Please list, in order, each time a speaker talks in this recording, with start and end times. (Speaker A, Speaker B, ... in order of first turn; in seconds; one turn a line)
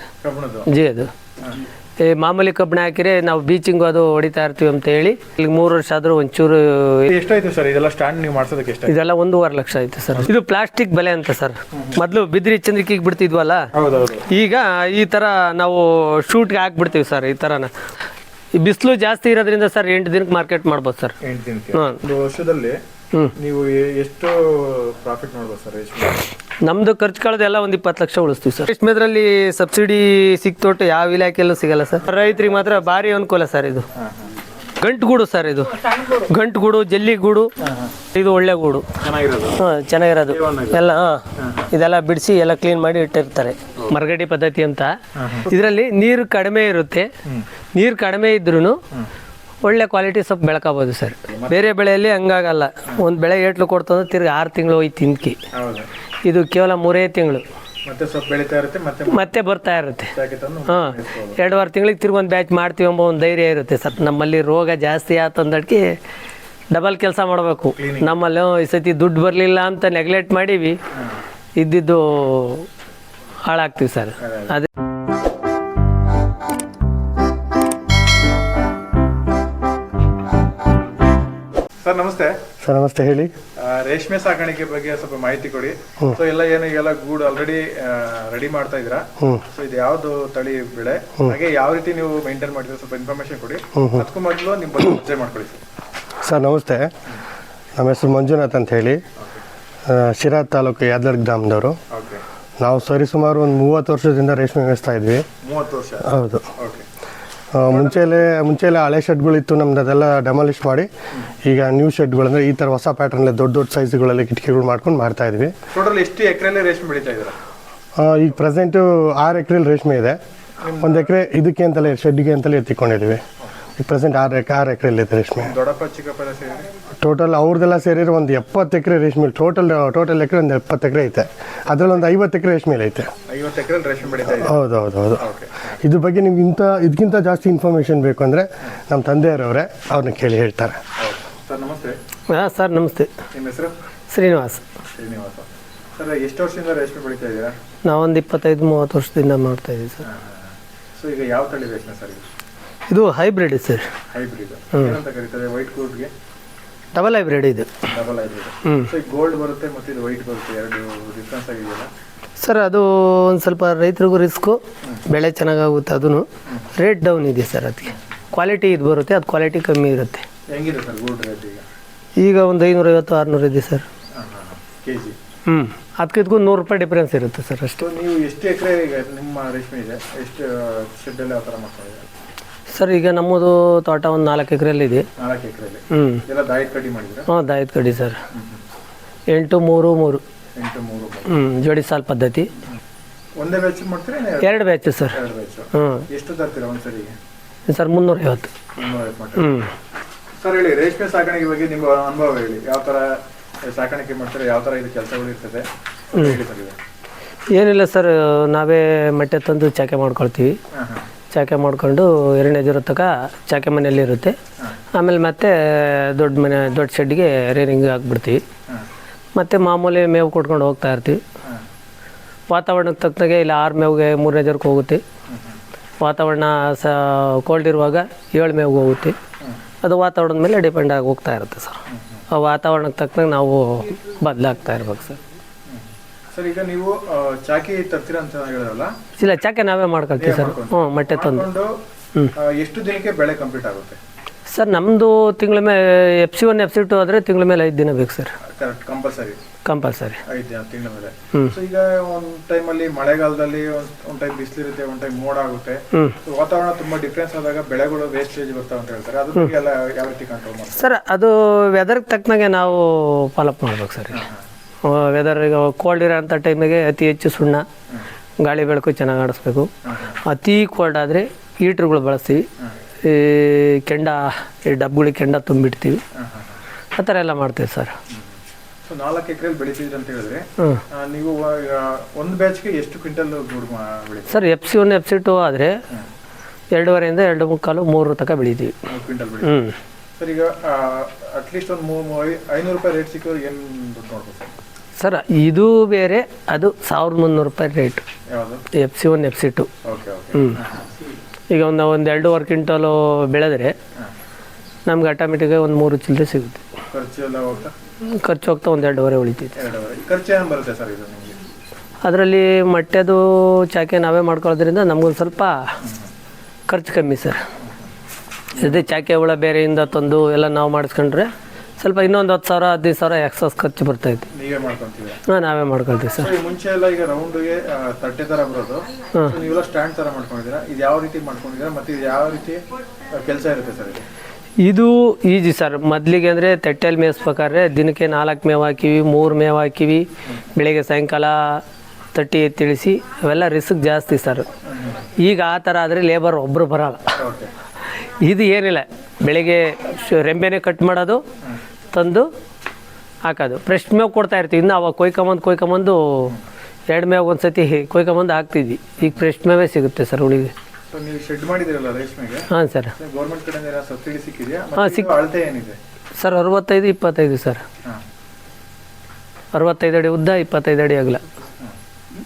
Speaker A: 0.2-0.7
Speaker B: 0.7-1.1
Speaker B: 2.0-7.1
Speaker A: 7.1-8.9
Speaker B: 8.9-13.7
Speaker A: 11.7-12.0
Speaker A: 13.7-14.2
Speaker B: 14.3-17.7
Speaker B: 18.6-21.1
Speaker A: 21.2-22.8
Speaker B: 21.7-22.0
Speaker A: 23.4-26.2
Speaker B: 26.6-33.8
Speaker A: 32.1-32.8
Speaker A: 33.9-34.3
Speaker B: 34.8-37.5
Speaker A: 37.6-38.0
Speaker B: 38.1-38.9
Speaker A: 39.0-39.6
Speaker B: 39.6-44.9
Speaker A: 40.3-40.8
Speaker A: 41.4-41.7
Speaker A: 45.2-45.5
Speaker B: 45.5-47.1
Speaker B: 47.7-48.8
Speaker B: 49.6-55.4
Speaker A: 51.3-51.7
Speaker A: 55.5-55.9
Speaker B: 56.2-57.4
Speaker A: 57.9-59.3
Speaker B: 59.1-60.1
Speaker A: 60.1-61.4
Speaker B: 60.7-65.9
Speaker B: 66.7-70.8
Speaker A: 67.8-68.2
Speaker B: 71.6-72.7
Speaker B: 73.5-74.7
Speaker A: 74.2-74.5
Speaker A: 81.8-82.4
Speaker C: 82.6-83.3
Speaker A: 83.6-95.6
Speaker C: 93.8-94.0
Speaker C: 96.2-96.9
Speaker C: 97.8-99.0
Speaker C: 99.8-101.8
Speaker A: 101.9-102.2
Speaker C: 102.6-105.2
Speaker A: 105.4-106.8
Speaker C: 106.0-106.4
Speaker C: 107.5-110.9
Speaker A: 107.7-108.1
Speaker C: 111.4-115.5
Speaker A: 115.7-117.4
Speaker C: 118.0-120.2
Speaker A: 120.6-121.1
Speaker C: 120.8-123.2
Speaker C: 123.8-125.5
Speaker A: 125.4-126.7
Speaker C: 127.0-133.1
Speaker A: 131.7-132.1
Speaker A: 133.3-134.6
Speaker C: 134.3-135.3
Speaker A: 135.2-135.8
Speaker C: 135.8-140.8
Speaker A: 141.0-142.0
Speaker B: 142.3-143.1
Speaker A: 143.3-143.7
Speaker B: 144.1-144.6
Speaker A: 144.9-147.5
Speaker B: 147.8-150.0
Speaker A: 150.0-150.4
Speaker A: 151.0-152.2
Speaker B: 152.9-153.8
Speaker A: 154.1-156.1
Speaker B: 156.9-157.7
Speaker A: 157.9-161.9
Speaker B: 158.6-158.9
Speaker B: 162.4-170.2
Speaker A: 170.5-171.6
Speaker B: 172.2-173.8
Speaker A: 174.2-175.2
Speaker B: 175.5-177.8
Speaker A: 177.8-182.1
Speaker B: 182.7-185.1
Speaker A: 185.2-187.3
Speaker B: 185.9-186.2
Speaker B: 187.3-188.2
Speaker A: 188.3-188.6
Speaker B: 189.3-190.2
Speaker A: 190.6-191.3
Speaker B: 191.3-192.5
Speaker A: 193.4-197.1
Speaker B: 194.4-195.2
Speaker B: 195.7-196.1
Speaker B: 197.7-198.5
Speaker A: 198.8-199.5
Speaker B: 199.4-199.7
Speaker A: 200.4-206.8
Speaker B: 207.5-210.6
Speaker A: 210.7-211.0
Speaker B: 211.3-214.4
Speaker B: 214.9-218.4
Speaker B: 219.4-221.2
Speaker B: 222.5-225.0
Speaker A: 225.3-225.6
Speaker B: 226.0-229.2
Speaker B: 229.8-231.8
Speaker A: 231.9-232.2
Speaker B: 232.3-235.2
Speaker A: 235.7-238.9
Speaker B: 239.2-241.4
Speaker A: 240.2-241.7
Speaker A: 242.3-244.0
Speaker B: 244.5-248.3
Speaker A: 248.6-249.4
Speaker B: 249.7-250.2
Speaker A: 250.3-260.8
Speaker B: 260.8-264.2
Speaker B: 264.8-267.6
Speaker B: 268.4-269.7
Speaker A: 269.8-270.2
Speaker B: 270.2-272.4
Speaker B: 273.0-276.0
Speaker A: 276.1-276.6
Speaker B: 276.9-277.9
Speaker A: 278.9-284.3
Speaker B: 284.3-285.7
Speaker B: 286.7-288.7
Speaker A: 288.9-289.6
Speaker B: 289.4-289.7
Speaker A: 290.2-294.5
Speaker B: 295.0-298.0
Speaker A: 298.3-298.6
Speaker B: 298.7-299.7
Speaker A: 299.8-300.9
Speaker B: 301.5-303.8
Speaker B: 304.9-306.6
Speaker A: 306.9-307.7
Speaker B: 308.0-309.6
Speaker A: 309.6-311.4
Speaker B: 312.0-315.7
Speaker A: 315.8-316.1
Speaker B: 316.7-317.4
Speaker A: 318.6-318.8
Speaker B: 318.6-324.2
Speaker A: 324.3-325.2
Speaker B: 325.3-326.3
Speaker A: 326.2-332.6
Speaker A: 333.1-334.0
Speaker B: 334.6-341.6
Speaker B: 342.1-344.4
Speaker A: 344.7-345.0
Speaker B: 345.2-347.1
Speaker A: 347.2-347.5
Speaker B: 348.0-351.2
Speaker B: 351.9-352.3
Speaker B: 353.2-356.3
Speaker B: 356.9-360.5
Speaker A: 360.9-362.5
Speaker B: 362.5-362.9
Speaker A: 363.0-365.8
Speaker B: 364.8-365.1
Speaker B: 366.2-367.6
Speaker B: 369.5-371.2